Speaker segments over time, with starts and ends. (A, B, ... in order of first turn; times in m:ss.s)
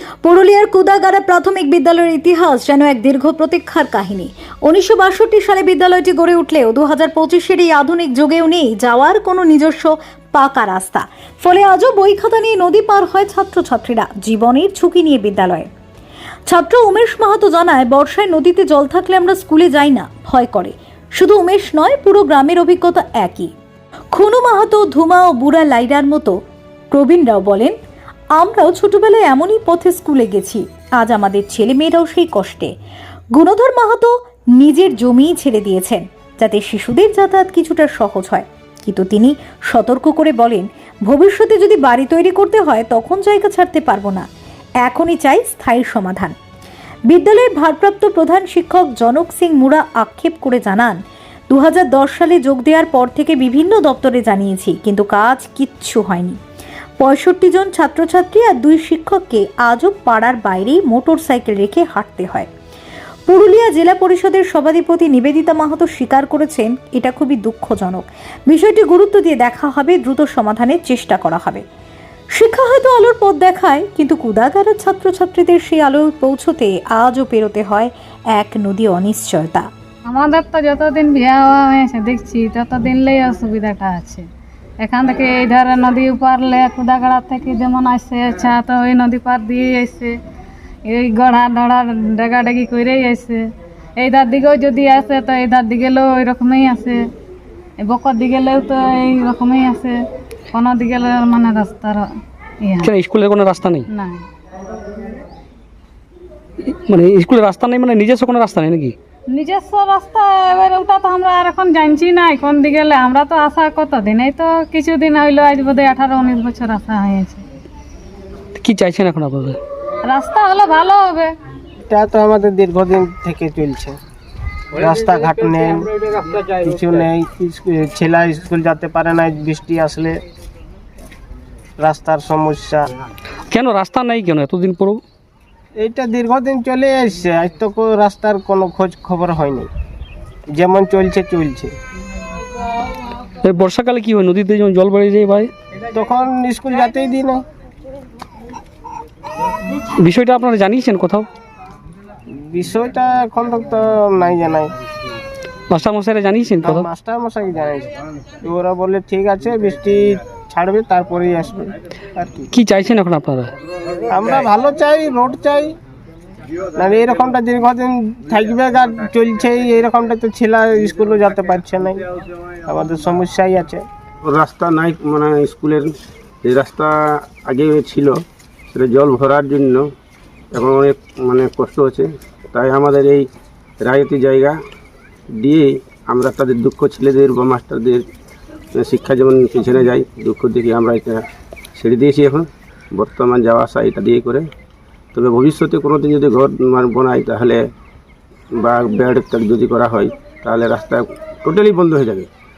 0:00.2-0:15.7 A
0:16.5-0:23.5 A
0:24.1-0:26.4 A
0:26.9-0:27.8 A
0:28.4-0:32.7 A
0:33.4-0:44.2 A
0:44.8-0:46.3 A
0:47.1-0:51.0 A
0:51.5-0:56.4 A
0:57.0-1:02.5 A
1:03.3-1:11.6 A
1:12.4-1:19.7 A
1:20.1-1:24.2 B
1:24.8-1:30.2 B
1:30.9-1:33.4 B
1:34.0-1:37.0 B
1:37.8-1:40.0 B
1:40.5-1:42.1 B
1:42.6-1:42.9 B
1:42.8-1:43.8 C
1:43.9-1:44.2 B
1:46.8-1:49.0 C
1:49.3-1:57.4 B
1:58.6-1:59.6 C
2:00.1-2:01.3 B
2:01.9-2:04.0 D
2:04.7-2:05.9 D
2:06.4-2:10.2 D
2:11.8-2:12.9 D
2:13.5-2:15.0 C
2:15.8-2:19.7 D
2:20.5-2:21.7 D
2:23.4-2:25.5 C
2:25.9-2:27.4 D
2:30.0-2:31.3 C
2:32.4-2:34.7 D
2:35.7-2:36.9 C
2:36.6-2:42.5 D
2:42.5-2:43.5 C
2:44.1-2:45.8 D
2:46.8-2:52.0 D
2:52.7-2:53.8 D
2:54.2-2:55.9 E
2:56.4-2:58.2 E
2:58.7-2:59.8 E
3:00.5-3:03.2 E
3:03.8-3:04.5 E
3:05.4-3:08.0 E
3:08.8-3:11.2 E
3:11.8-3:14.4 E
3:15.1-3:17.6 E
3:18.6-3:22.3 E